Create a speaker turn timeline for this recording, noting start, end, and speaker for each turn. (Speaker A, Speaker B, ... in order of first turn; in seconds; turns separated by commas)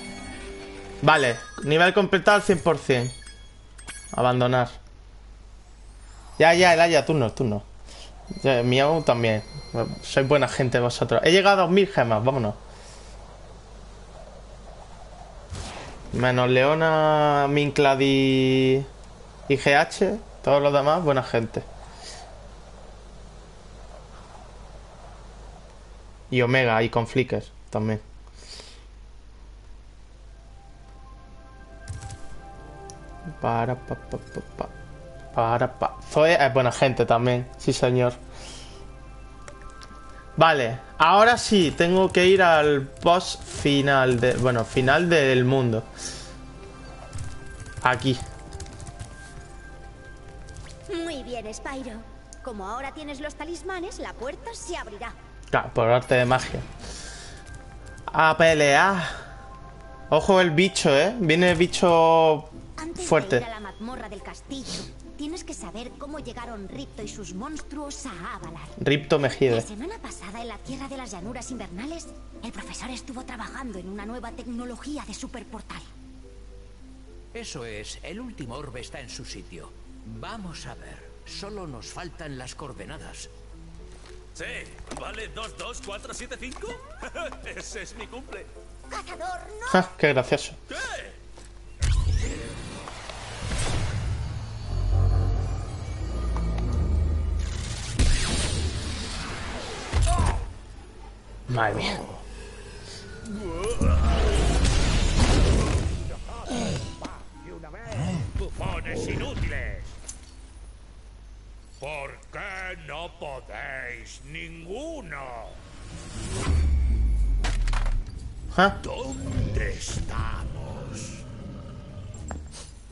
Speaker A: 1.0-3.1, Speaker A: 4.1-4.8, Speaker A: 6.4-7.7, Speaker A: 8.4-12.6, Speaker A: 16.1-18.9, Speaker A: 19.5-21.6, Speaker A: 26.3-28.0, Speaker A: 33.4-34.7, Speaker A: 35.3-38.2, Speaker A: 40.4-45.9, Speaker A: 47.8-48.2, Speaker B: 50.9-55.1, Speaker A: 55.5-56.7, Speaker A: 58.1-59.2, Speaker A: 60.1-63.4, Speaker B: 62.8-68.7, Speaker A: 68.8-69.7, Speaker B: 69.5-75.9, Speaker C: 77.3-83.3, Speaker D: 84.3-88.5, Speaker B: 88.9-89.9, Speaker A: 89.7-90.6, Speaker D: 90.7-91.2, Speaker A: 101.5-102.0, Speaker E: 103.4-104.0, Speaker E: 106.0-109.9, Speaker E: 111.8-115.6, Speaker A: 118.5-118.8, Speaker E: 118.8-121.2